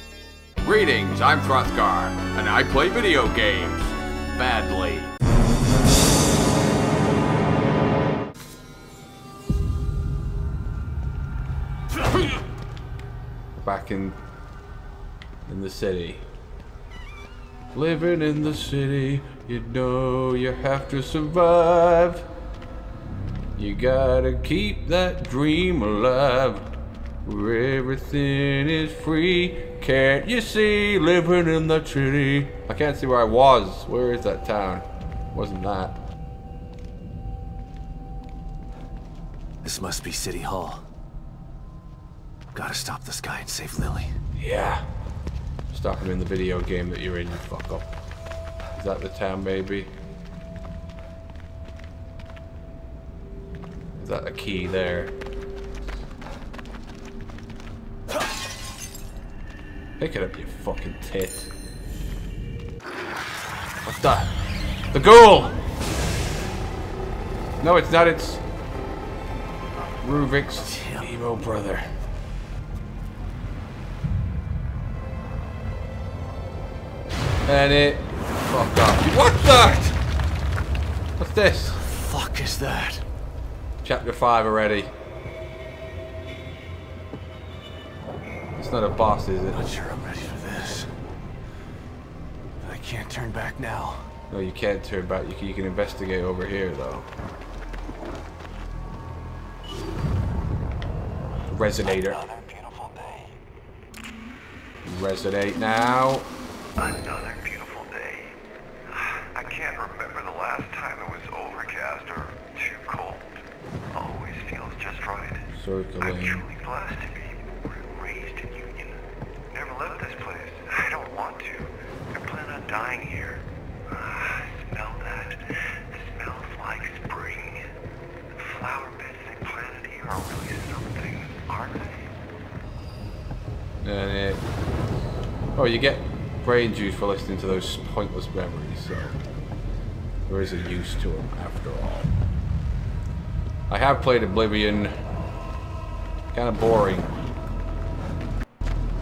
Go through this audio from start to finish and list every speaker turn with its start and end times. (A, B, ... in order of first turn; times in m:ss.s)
0:00.6-0:05.1 A
0:13.6-0:14.2 A
0:15.5-0:16.2 A
0:17.7-0:22.2 A
0:23.6-0:26.7 A
0:27.2-0:36.0 A
0:39.6-0:40.8 B
0:42.5-0:44.1 B
0:44.4-0:44.8 A
0:45.7-0:47.9 A
0:48.8-0:49.9 A
0:54.0-0:55.1 A
1:00.0-1:01.5 A
1:03.8-1:04.3 A
1:04.9-1:05.6 A
1:07.6-1:08.4 A
1:10.0-1:11.9 A
1:10.7-1:11.1 B
1:17.5-1:20.0 A
1:21.2-1:21.8 A
1:21.8-1:23.0 B
1:23.8-1:24.9 A
1:28.6-1:29.7 A
1:29.5-1:30.9 B
1:32.6-1:34.1 B
1:34.3-1:37.1 A
1:41.5-1:42.2 A
1:42.0-1:43.3 C
1:44.8-1:46.3 A
1:46.8-1:48.4 C
1:48.9-1:55.5 C
1:55.5-1:56.5 A
1:56.0-2:07.7 C
2:08.4-2:12.2 C
2:13.8-2:14.4 A
2:15.6-2:19.2 A
2:20.3-2:22.1 A
2:23.7-2:25.0 A
2:26.3-2:27.1 A